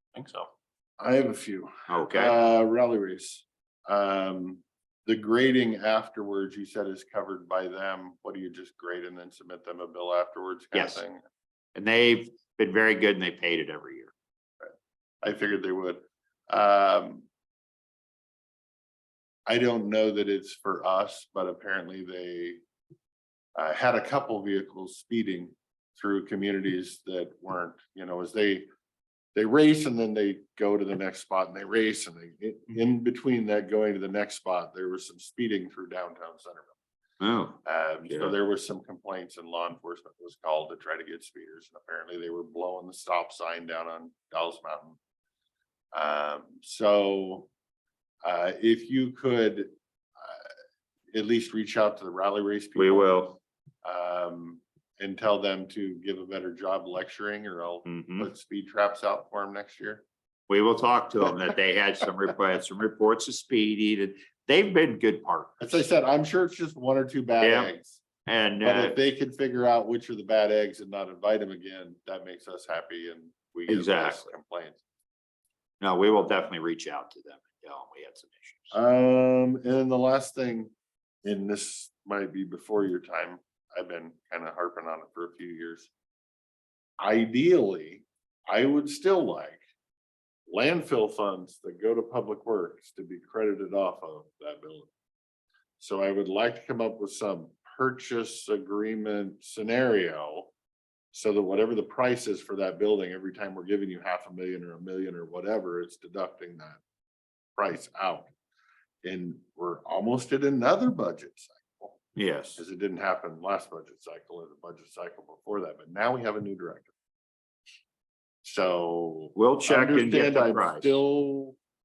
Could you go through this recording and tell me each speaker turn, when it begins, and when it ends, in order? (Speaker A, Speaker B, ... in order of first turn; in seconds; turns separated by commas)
Speaker A: 0.1-11.2, Speaker B: 1.9-2.4, Speaker B: 10.7-11.0, Speaker B: 11.7-14.1, Speaker A: 15.2-17.2, Speaker A: 19.5-22.6, Speaker A: 23.6-28.6, Speaker A: 29.3-36.7, Speaker B: 37.2-38.3, Speaker A: 37.6-45.0, Speaker A: 45.9-47.5, Speaker A: 48.2-49.7, Speaker A: 51.1-53.3, Speaker B: 52.8-53.4, Speaker A: 53.8-60.0, Speaker B: 57.8-58.3, Speaker B: 60.5-65.8, Speaker A: 65.6-68.0, Speaker B: 67.4-67.7, Speaker B: 68.2-69.0, Speaker A: 68.6-74.8, Speaker B: 73.7-74.3, Speaker B: 75.8-78.7, Speaker A: 78.7-80.7, Speaker A: 81.2-85.9, Speaker A: 87.0-89.6, Speaker A: 90.5-94.9, Speaker A: 95.8-100.5, Speaker A: 101.1-106.8, Speaker A: 107.6-108.3, Speaker A: 109.0-112.0, Speaker B: 112.2-112.6, Speaker A: 112.6-116.9, Speaker A: 118.4-121.6, Speaker B: 119.3-121.0